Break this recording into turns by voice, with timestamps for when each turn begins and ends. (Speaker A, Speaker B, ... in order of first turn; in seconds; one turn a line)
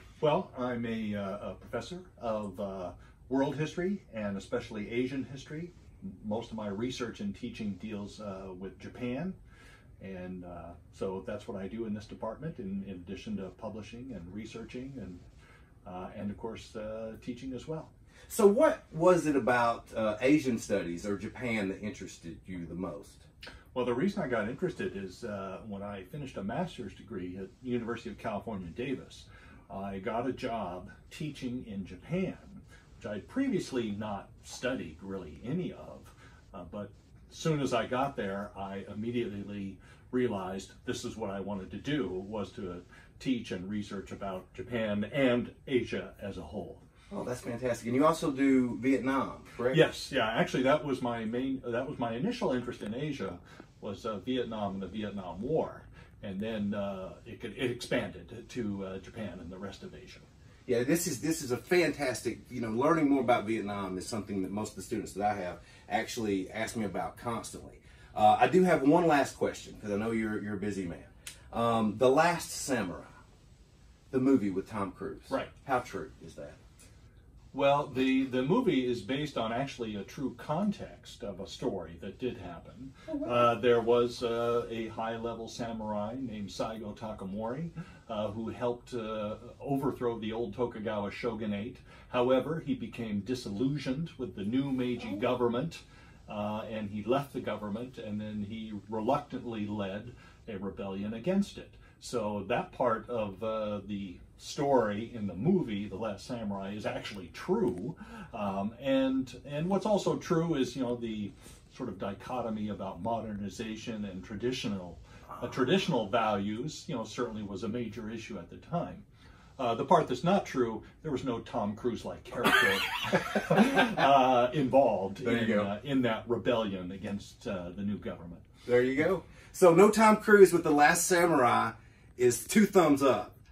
Speaker A: 0.2-9.4
Speaker A: 10.0-15.2
Speaker A: 15.8-17.9
Speaker B: 18.3-23.2
Speaker A: 23.7-46.8
Speaker B: 47.1-49.9
Speaker A: 49.7-60.3
Speaker B: 60.7-73.1
Speaker B: 74.1-76.6
Speaker A: 77.5-119.0
Speaker A: 119.6-128.5
Speaker B: 125.2-125.7
Speaker B: 128.7-133.4